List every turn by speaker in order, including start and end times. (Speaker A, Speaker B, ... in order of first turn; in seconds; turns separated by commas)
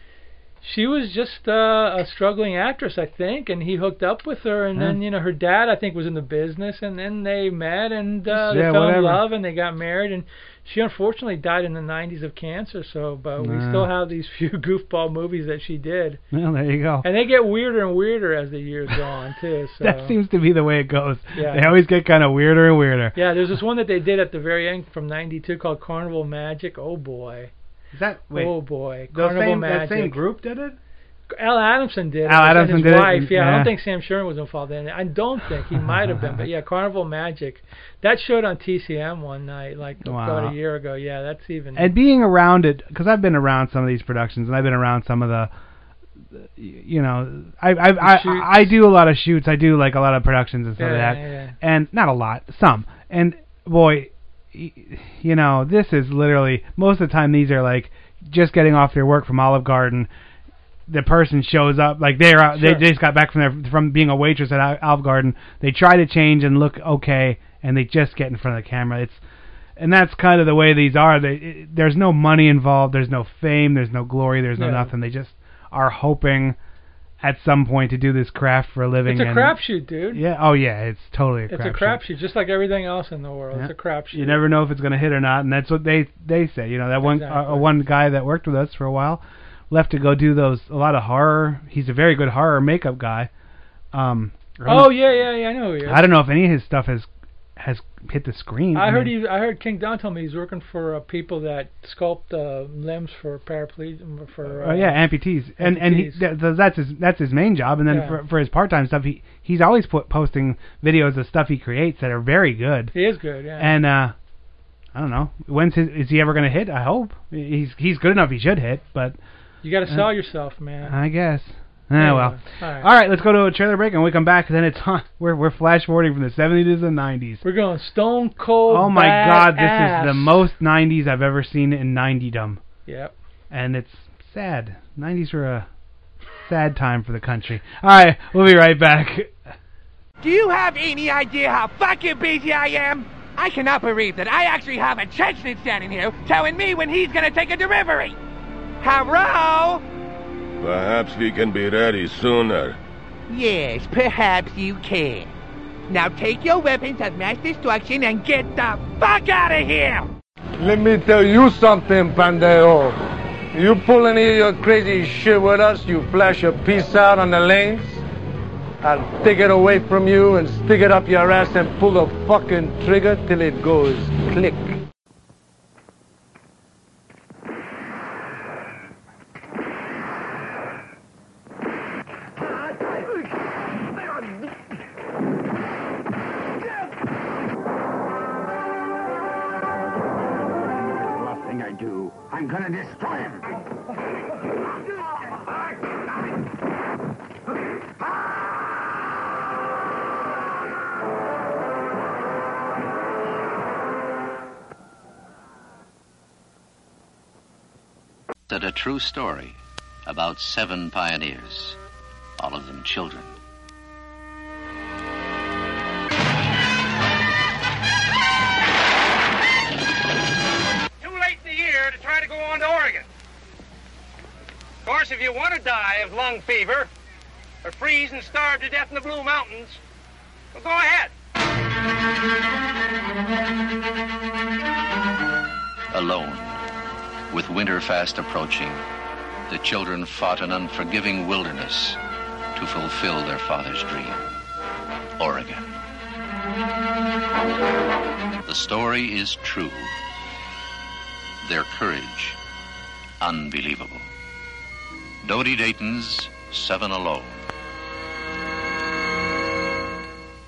Speaker A: 0.6-16.2, Speaker B: 8.3-9.2, Speaker B: 13.4-13.9, Speaker B: 16.3-17.0, Speaker A: 17.0-20.1, Speaker B: 19.8-23.1, Speaker A: 21.3-21.7, Speaker A: 23.1-27.5, Speaker B: 27.9-28.5, Speaker A: 28.3-30.2, Speaker B: 29.1-30.8, Speaker A: 31.3-41.9, Speaker B: 32.2-33.7, Speaker B: 35.8-36.4, Speaker B: 40.0-40.5, Speaker B: 41.8-45.5, Speaker B: 46.3-60.1, Speaker A: 48.0-48.8, Speaker A: 50.8-51.5, Speaker B: 60.9-69.2, Speaker A: 62.5-62.8, Speaker B: 69.8-76.6, Speaker A: 74.6-74.9, Speaker B: 77.2-79.6, Speaker A: 79.0-80.2, Speaker B: 80.1-82.0, Speaker A: 81.5-84.4, Speaker B: 83.5-93.3, Speaker A: 87.0-87.7, Speaker B: 93.9-95.0, Speaker A: 94.6-96.1, Speaker B: 95.8-99.1, Speaker A: 98.7-106.2, Speaker B: 104.5-112.9, Speaker A: 107.9-108.2, Speaker A: 112.9-113.8, Speaker B: 113.6-114.1, Speaker B: 114.9-119.2, Speaker A: 119.6-120.9, Speaker B: 120.8-127.4, Speaker A: 122.0-122.9, Speaker A: 127.4-130.4, Speaker B: 128.7-132.6, Speaker A: 132.8-133.1, Speaker B: 133.5-135.7, Speaker B: 136.4-139.3, Speaker C: 140.2-148.2, Speaker C: 148.8-149.8, Speaker D: 150.6-152.8, Speaker C: 153.3-155.3, Speaker C: 155.9-160.1, Speaker E: 160.6-163.0, Speaker E: 163.5-168.0, Speaker E: 168.8-174.8, Speaker F: 190.9-193.4, Speaker G: 208.5-211.8, Speaker G: 212.4-213.3, Speaker H: 221.0-223.1, Speaker H: 224.8-226.9, Speaker H: 227.6-229.8, Speaker H: 230.5-231.1, Speaker G: 235.9-236.6, Speaker G: 237.3-238.8, Speaker G: 239.5-242.0, Speaker G: 242.5-244.2, Speaker G: 245.2-245.7, Speaker G: 248.4-249.9, Speaker G: 251.4-252.4, Speaker G: 253.2-254.1, Speaker G: 255.2-257.4